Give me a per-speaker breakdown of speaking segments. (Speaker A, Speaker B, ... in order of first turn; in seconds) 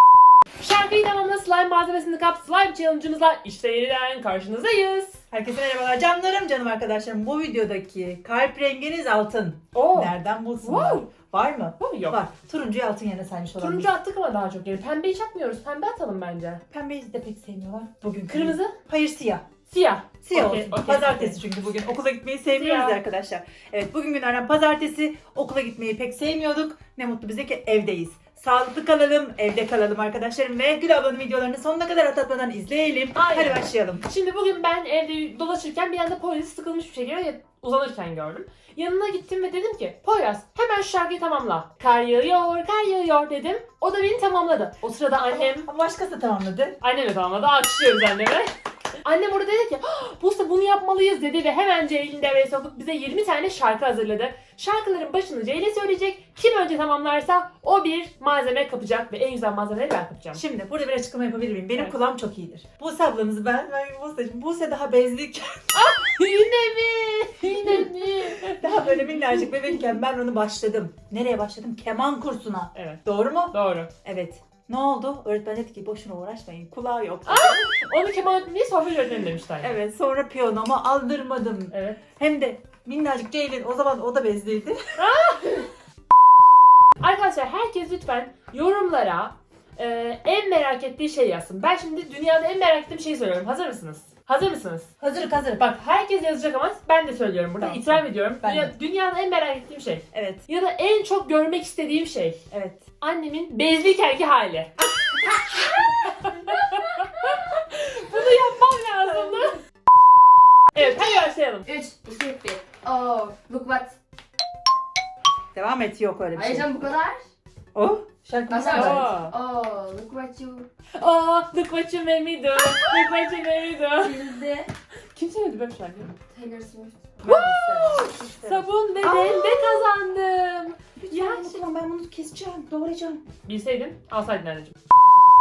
Speaker A: 0.6-5.2, 9.7-11.1, 11.8-12.2, 13.6-16.6, 18.3-18.7, 19.7-21.4, 22.6-23.0, 33.1-45.7, 46.8-48.5, 49.0-60.4, 65.7-69.5, 72.7-73.9, 77.2-79.7, 81.7-82.0, 85.0-85.7, 87.0-94.9, 95.5-102.4, 103.0-109.6, 110.7-111.7, 118.7-119.3, 120.9-124.3, 125.1-126.2, 127.2-131.6, 133.4-134.7
Speaker B: 5.3-13.9, 16.7-19.4, 20.2-34.0, 45.3-46.8, 60.3-65.8, 67.5-67.8, 68.4-77.6, 79.6-84.9, 95.0-95.7, 97.6-98.7, 100.1-100.4, 102.5-102.8, 115.5-116.7, 117.7-119.1, 127.2-129.9, 131.0-133.2
Speaker C: 110.8-114.0, 116.3-117.2, 118.5-120.7, 122.5-123.3, 124.0-124.7, 126.3-128.2